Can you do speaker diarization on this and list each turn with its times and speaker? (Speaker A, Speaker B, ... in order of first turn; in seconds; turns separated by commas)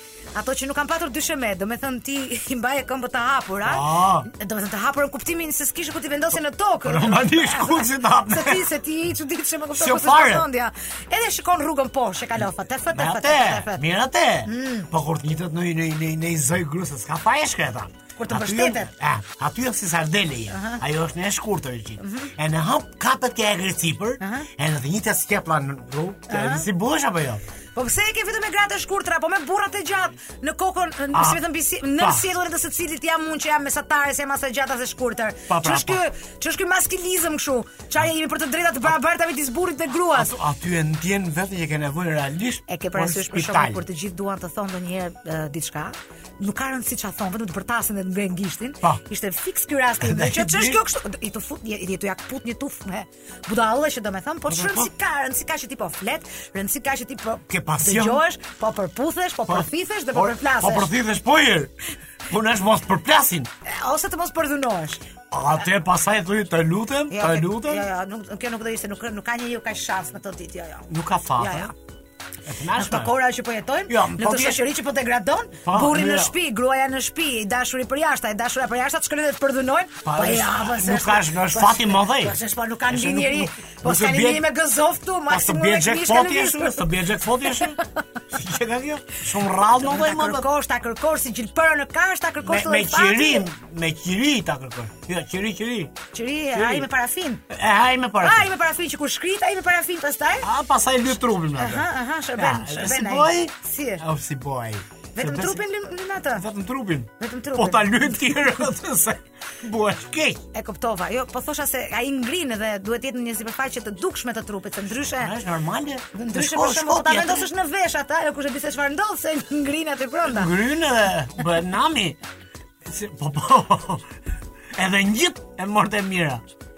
Speaker A: 0.3-13.8, Speaker B: 3.6-4.3, Speaker B: 6.8-8.7, Speaker B: 9.7-10.5, Speaker B: 12.9-27.4, Speaker A: 14.4-14.9, Speaker A: 18.2-18.9, Speaker A: 20.5-20.8, Speaker A: 22.0-22.3, Speaker A: 24.2-24.5, Speaker A: 26.3-26.7, Speaker A: 27.7-40.3, Speaker B: 31.1-31.4, Speaker B: 32.0-32.2, Speaker B: 35.5-36.0, Speaker B: 40.1-43.8, Speaker A: 42.7-60.9, Speaker B: 50.0-50.8, Speaker B: 54.5-54.9, Speaker B: 57.5-58.2, Speaker B: 59.5-61.7, Speaker B: 62.3-63.5, Speaker A: 63.6-65.0, Speaker B: 65.3-67.8, Speaker A: 67.1-71.7, Speaker B: 70.9-71.7, Speaker B: 72.5-73.1, Speaker A: 72.7-86.9, Speaker B: 73.9-74.7, Speaker B: 75.6-76.3, Speaker B: 80.0-82.4, Speaker B: 82.9-84.5, Speaker B: 85.3-87.8, Speaker A: 87.5-87.8, Speaker B: 88.3-90.5, Speaker A: 89.6-93.5, Speaker B: 92.4-96.0, Speaker A: 96.1-97.4, Speaker B: 96.5-96.9, Speaker B: 97.5-98.5, Speaker A: 98.2-100.5, Speaker B: 100.4-105.6, Speaker A: 101.5-104.0, Speaker A: 105.1-106.4, Speaker B: 106.3-110.4, Speaker A: 107.2-108.6, Speaker A: 110.5-115.3, Speaker B: 115.0-117.5, Speaker A: 116.1-120.6, Speaker B: 120.2-122.2, Speaker B: 122.8-124.1, Speaker B: 124.7-126.4